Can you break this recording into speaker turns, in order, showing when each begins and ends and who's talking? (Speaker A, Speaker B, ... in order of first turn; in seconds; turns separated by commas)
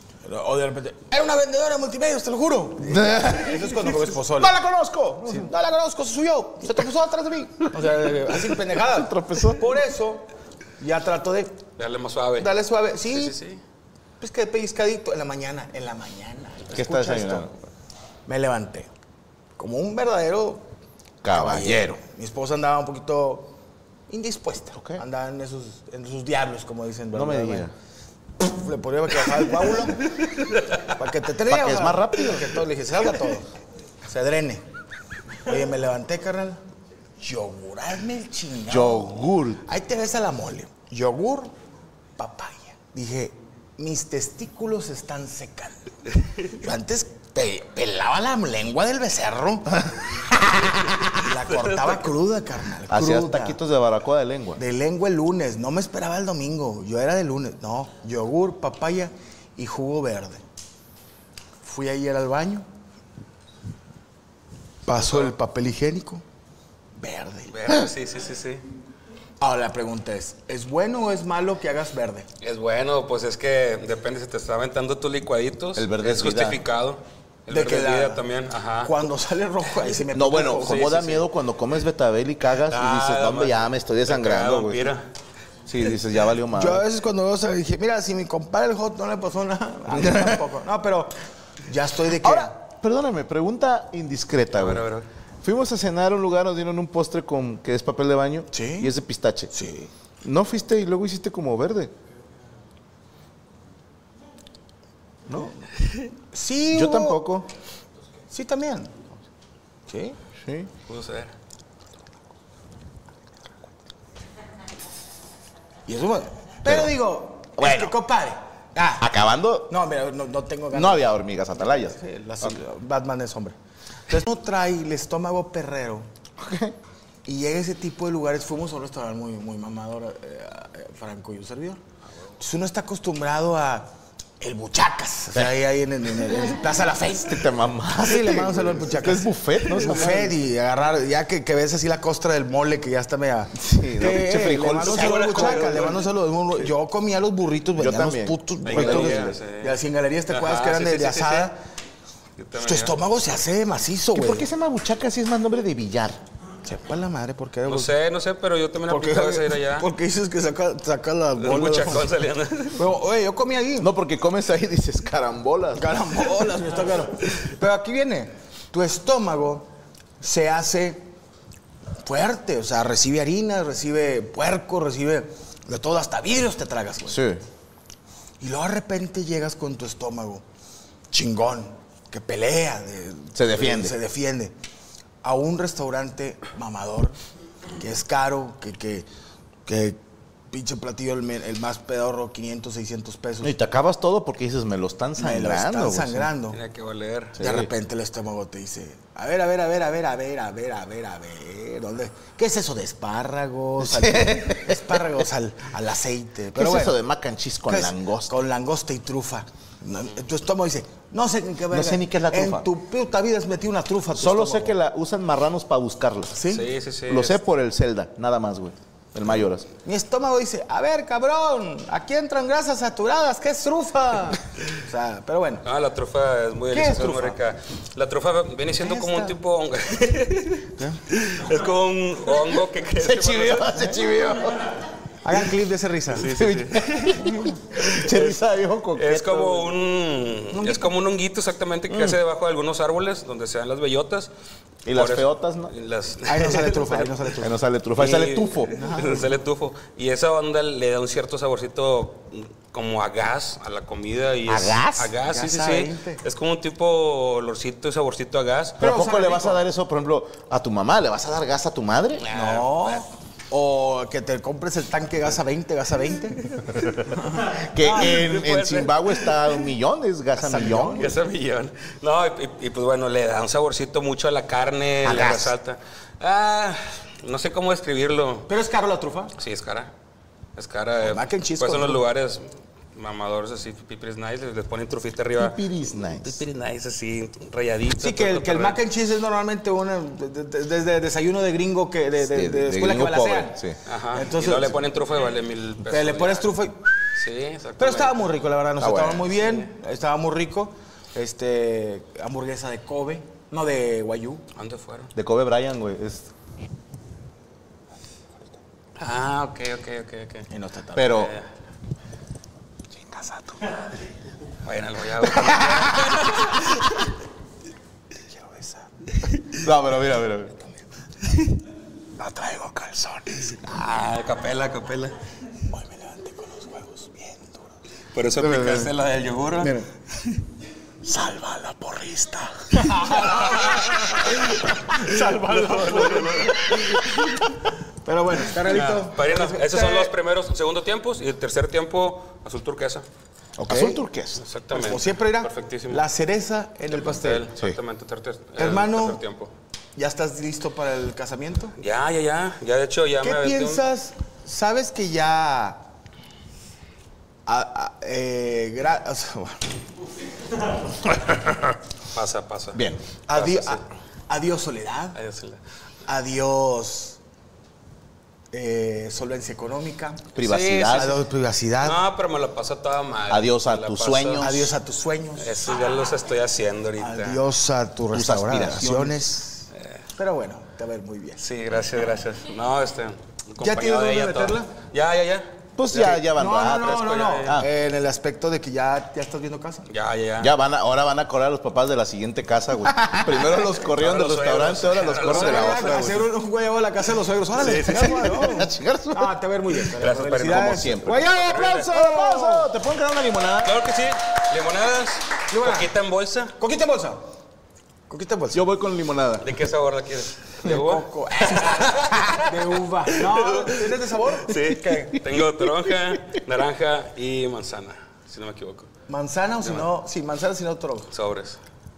Speaker A: 0.2-4.5, Speaker B: 2.9-5.5, Speaker A: 5.3-10.3, Speaker B: 8.3-9.6, Speaker A: 10.8-11.6, Speaker C: 11.8-12.5, Speaker A: 12.4-13.3, Speaker C: 13.1-13.6, Speaker A: 14.2-17.5, Speaker B: 16.7-17.6, Speaker A: 18.3-18.9, Speaker A: 19.6-20.7, Speaker B: 21.2-22.0, Speaker A: 21.3-23.6, Speaker A: 24.1-27.7, Speaker B: 24.7-25.0, Speaker B: 27.1-27.7, Speaker A: 28.4-30.1, Speaker A: 30.9-33.5, Speaker B: 31.5-32.6, Speaker A: 34.0-34.6, Speaker A: 35.4-36.6, Speaker A: 37.2-41.5, Speaker B: 38.7-39.6, Speaker A: 42.2-49.9, Speaker A: 51.0-53.6, Speaker C: 51.1-52.0, Speaker B: 52.9-54.6, Speaker A: 54.6-60.4, Speaker A: 61.6-62.7, Speaker A: 64.9-66.2, Speaker C: 65.0-65.3, Speaker A: 67.0-67.7, Speaker C: 67.5-68.6, Speaker A: 69.4-72.3, Speaker C: 72.4-78.9, Speaker B: 75.8-76.6, Speaker A: 77.5-78.2, Speaker A: 78.8-81.0, Speaker B: 80.1-84.9, Speaker C: 80.6-81.2, Speaker C: 82.7-85.1, Speaker B: 85.7-86.8, Speaker A: 86.5-91.1, Speaker B: 89.9-90.4, Speaker A: 91.6-92.5, Speaker B: 92.2-94.8, Speaker C: 94.5-95.1, Speaker B: 95.4-99.5, Speaker A: 98.5-98.9, Speaker A: 99.5-99.9, Speaker B: 100.2-101.9, Speaker B: 105.3-105.6, Speaker A: 106.3-107.2, Speaker B: 106.7-107.5, Speaker A: 108.3-108.9, Speaker A: 109.9-110.2, Speaker B: 110.4-110.7, Speaker C: 110.9-111.3, Speaker A: 115.9-119.1, Speaker B: 116.6-117.0, Speaker B: 117.6-118.0, Speaker B: 119.0-119.8, Speaker A: 119.7-123.5, Speaker B: 120.7-122.6, Speaker A: 124.1-126.1, Speaker B: 126.4-126.8, Speaker A: 127.3-131.8, Speaker A: 132.4-151.6, Speaker B: 135.3-135.6, Speaker B: 137.2-140.3, Speaker B: 143.6-146.0, Speaker C: 144.8-146.1, Speaker B: 147.8-149.4, Speaker C: 148.7-151.5, Speaker C: 152.4-153.0, Speaker A: 152.6-154.5, Speaker B: 154.1-156.2, Speaker A: 156.6-157.9, Speaker C: 157.7-159.9, Speaker A: 158.9-162.1, Speaker C: 161.4-162.8, Speaker A: 162.8-163.9, Speaker B: 163.8-166.2, Speaker A: 165.8-169.7, Speaker A: 170.2-171.1, Speaker A: 172.0-177.2, Speaker B: 177.1-177.4, Speaker A: 178.4-180.4, Speaker A: 181.1-184.5, Speaker B: 183.3-184.0, Speaker A: 185.2-187.2, Speaker A: 187.8-189.1, Speaker A: 189.7-190.0, Speaker A: 190.5-193.5, Speaker B: 193.4-196.3, Speaker A: 195.2-196.6, Speaker C: 196.5-197.4, Speaker B: 197.4-197.7, Speaker A: 197.4-207.0, Speaker B: 203.8-205.2, Speaker B: 206.6-208.4, Speaker A: 207.7-214.8, Speaker B: 211.7-212.7, Speaker B: 214.2-216.4, Speaker A: 216.3-216.7, Speaker C: 216.5-217.4, Speaker B: 217.1-219.7, Speaker A: 219.8-225.7, Speaker C: 225.7-233.9, Speaker A: 226.7-227.4, Speaker A: 228.8-229.3, Speaker B: 233.0-234.8, Speaker A: 235.2-236.3, Speaker C: 236.1-238.4, Speaker B: 236.3-239.7, Speaker C: 238.9-244.3, Speaker A: 240.5-240.9, Speaker B: 241.9-242.2, Speaker B: 244.9-245.7, Speaker C: 244.9-247.2, Speaker A: 246.3-247.6, Speaker B: 247.4-248.8, Speaker C: 248.0-258.8, Speaker A: 248.7-249.3, Speaker B: 254.5-255.1, Speaker A: 255.2-256.2, Speaker B: 258.8-262.2, Speaker A: 258.8-259.6, Speaker C: 262.2-263.1, Speaker A: 262.3-266.6, Speaker C: 266.6-269.3, Speaker B: 267.6-271.1, Speaker A: 270.4-271.1, Speaker C: 271.0-278.5, Speaker B: 275.0-275.6, Speaker A: 278.5-279.3, Speaker C: 279.4-279.9, Speaker C: 280.6-288.8, Speaker A: 281.0-282.0, Speaker B: 285.4-286.4, Speaker A: 288.0-293.6, Speaker B: 292.3-293.8, Speaker C: 293.9-296.6, Speaker A: 294.1-294.8, Speaker A: 295.9-296.8, Speaker C: 297.1-298.3, Speaker A: 297.8-304.4, Speaker B: 298.8-299.3, Speaker C: 299.4-299.7, Speaker C: 304.6-305.1, Speaker B: 305.1-306.3, Speaker C: 309.0-310.5, Speaker A: 310.5-311.2, Speaker B: 311.0-311.3, Speaker C: 311.0-311.5, Speaker B: 313.1-313.6, Speaker C: 314.6-317.0, Speaker B: 315.5-316.1, Speaker A: 318.3-318.9, Speaker B: 319.5-320.6, Speaker A: 322.2-323.6, Speaker C: 323.6-325.2, Speaker A: 325.7-327.6, Speaker C: 328.1-329.8, Speaker B: 328.4-328.9, Speaker A: 329.6-329.9, Speaker A: 331.1-332.0, Speaker B: 331.7-332.5, Speaker A: 332.7-337.4, Speaker C: 332.9-334.4, Speaker C: 335.0-337.4, Speaker A: 338.0-340.1, Speaker C: 338.7-343.1, Speaker B: 343.6-344.4, Speaker A: 343.7-344.0, Speaker C: 344.4-346.1, Speaker A: 344.7-347.5, Speaker C: 346.9-349.5, Speaker A: 348.6-349.2, Speaker A: 350.0-351.8, Speaker C: 351.8-353.8, Speaker A: 353.2-355.8, Speaker A: 357.5-359.6, Speaker C: 362.1-363.8, Speaker B: 362.7-363.0, Speaker A: 363.3-365.2, Speaker C: 365.1-365.6, Speaker A: 366.1-367.2, Speaker A: 368.5-370.2, Speaker B: 370.4-371.2, Speaker C: 370.4-371.2, Speaker A: 370.9-372.0, Speaker C: 371.8-374.5, Speaker B: 373.3-374.8, Speaker A: 374.4-375.7, Speaker C: 375.4-377.4, Speaker A: 377.0-381.4, Speaker B: 378.1-379.3, Speaker C: 381.4-387.6, Speaker A: 383.6-384.7, Speaker B: 385.8-387.7, Speaker A: 385.9-389.9, Speaker C: 389.9-390.5, Speaker B: 390.4-396.3, Speaker C: 393.9-396.0, Speaker A: 395.3-402.7, Speaker C: 397.6-398.6, Speaker B: 397.9-399.4, Speaker C: 400.0-401.9, Speaker B: 400.4-403.8, Speaker C: 403.6-406.6, Speaker A: 405.5-405.9, Speaker A: 406.6-407.2, Speaker A: 408.1-408.6, Speaker B: 408.5-409.5, Speaker C: 409.4-412.4, Speaker A: 410.6-415.2, Speaker C: 413.2-418.9, Speaker A: 419.1-421.1, Speaker C: 419.6-419.9, Speaker C: 421.1-421.6